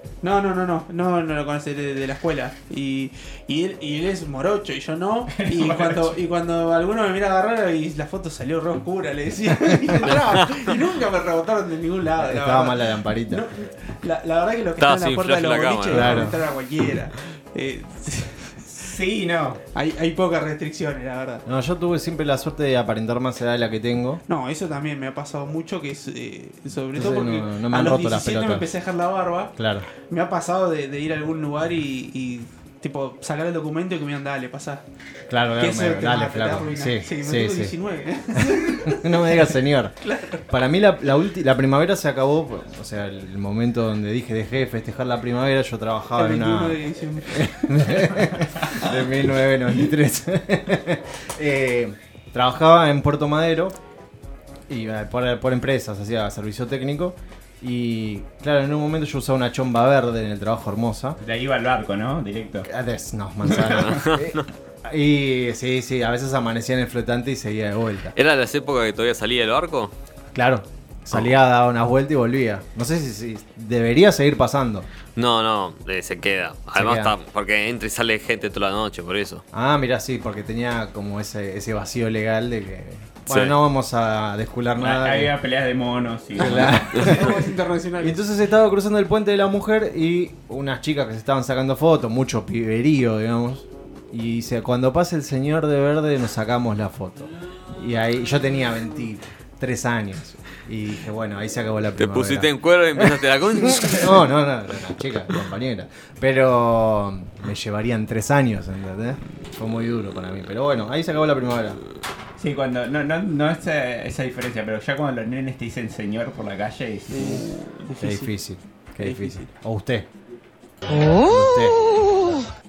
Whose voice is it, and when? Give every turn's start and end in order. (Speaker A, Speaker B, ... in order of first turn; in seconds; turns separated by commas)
Speaker A: 0.2-18.7, Speaker B: 5.3-6.2, Speaker C: 9.5-10.1, Speaker C: 12.2-13.5, Speaker D: 14.8-16.3, Speaker C: 15.9-16.4, Speaker B: 18.7-19.6, Speaker A: 19.8-21.4, Speaker C: 21.4-24.2, Speaker A: 24.3-29.5, Speaker C: 26.9-28.7, Speaker C: 29.6-29.9, Speaker A: 30.1-34.8, Speaker C: 35.3-37.8, Speaker A: 35.6-40.5, Speaker C: 38.3-53.8, Speaker A: 46.1-47.7, Speaker C: 54.7-61.2, Speaker B: 61.2-62.7, Speaker C: 62.6-68.1, Speaker B: 63.5-63.8, Speaker D: 63.7-64.5, Speaker D: 68.2-69.9, Speaker C: 70.3-74.9, Speaker D: 75.2-79.4, Speaker C: 76.8-77.1, Speaker C: 79.5-85.3, Speaker D: 83.3-83.5, Speaker B: 84.8-87.5, Speaker C: 86.3-87.3, Speaker A: 86.5-88.2, Speaker C: 88.0-102.5, Speaker D: 102.0-104.3, Speaker C: 103.6-111.8, Speaker B: 112.4-117.5, Speaker A: 117.1-118.3, Speaker C: 118.0-120.1, Speaker A: 119.0-119.5, Speaker C: 120.9-121.8